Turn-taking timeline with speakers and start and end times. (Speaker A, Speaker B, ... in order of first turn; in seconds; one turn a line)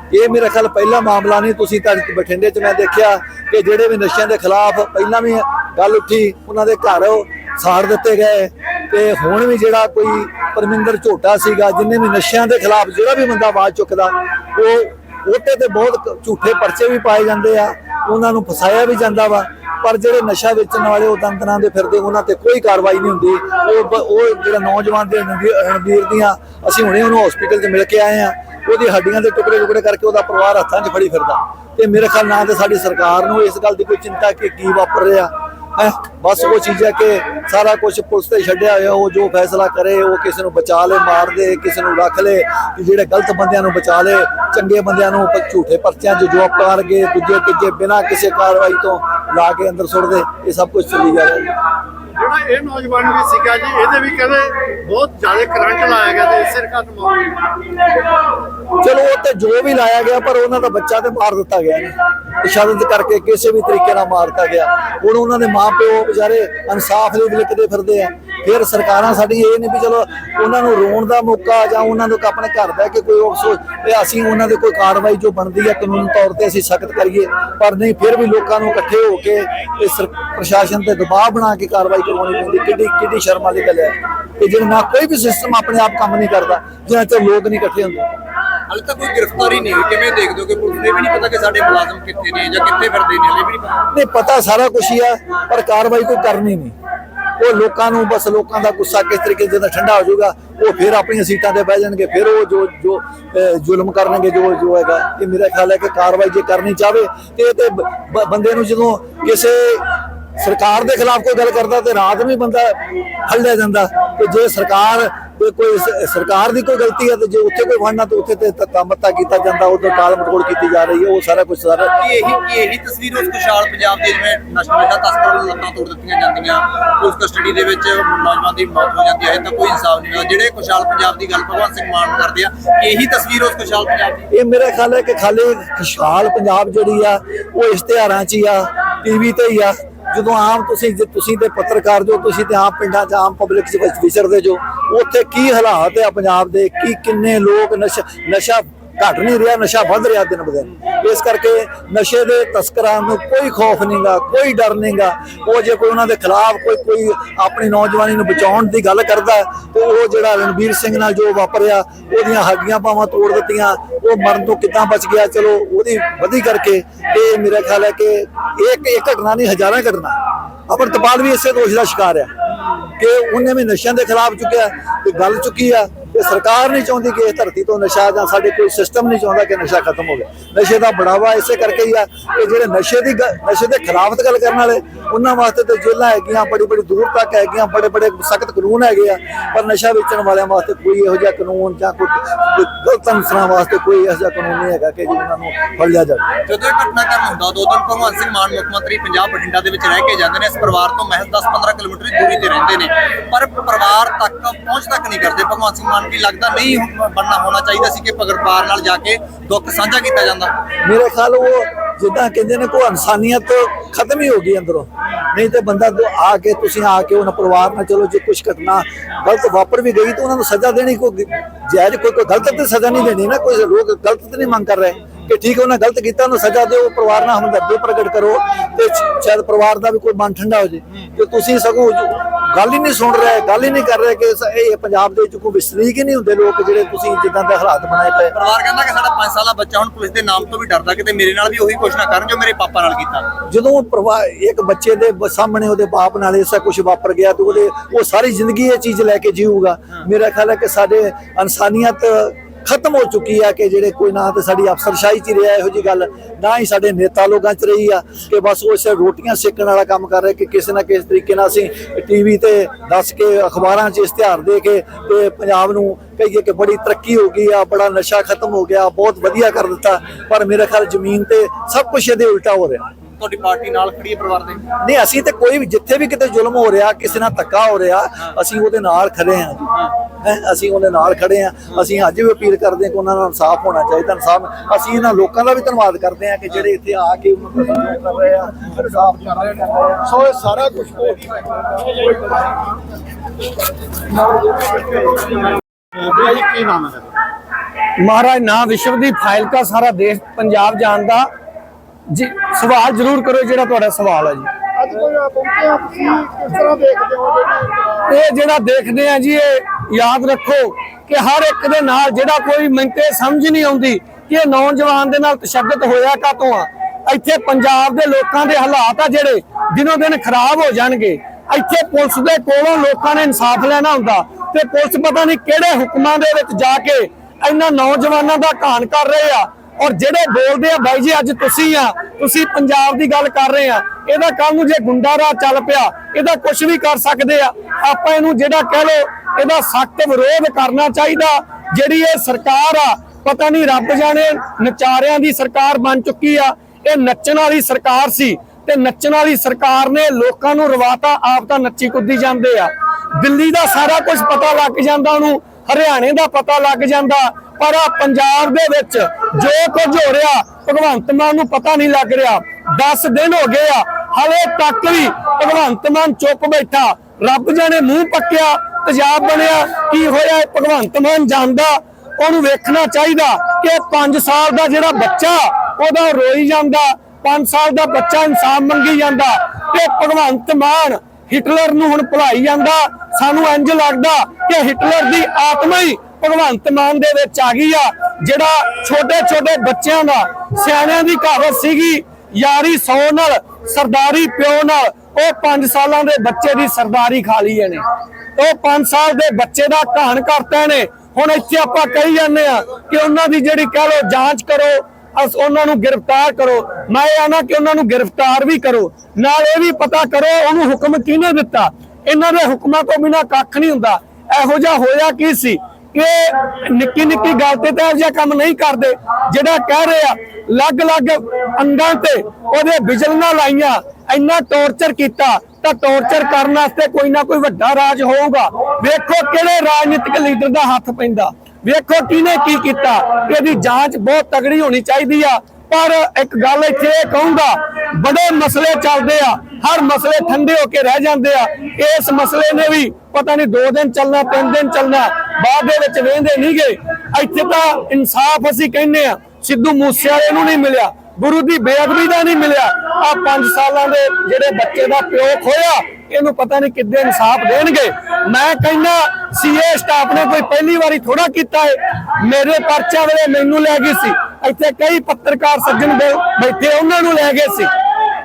Speaker A: 0.1-51.5
Speaker B: 52.1-57.3
Speaker A: 58.8-88.1
Speaker C: 88.7-93.8
Speaker A: 93.9-96.7
Speaker A: 97.4-121.9
Speaker C: 122.0-134.2
Speaker A: 134.3-172.3
Speaker A: 172.9-196.3
Speaker C: 196.4-210.5
Speaker A: 210.8-238.3
Speaker C: 238.3-243.3
Speaker A: 243.4-272.9
Speaker C: 273.2-274.6
Speaker A: 274.8-291.1
Speaker B: 294.7-295.4
Speaker B: 295.9-297.1
Speaker D: 298.0-301.3
Speaker D: 302.1-304.5
Speaker B: 304.8-308.1
Speaker D: 308.1-397.8
Speaker D: 398.4-467.7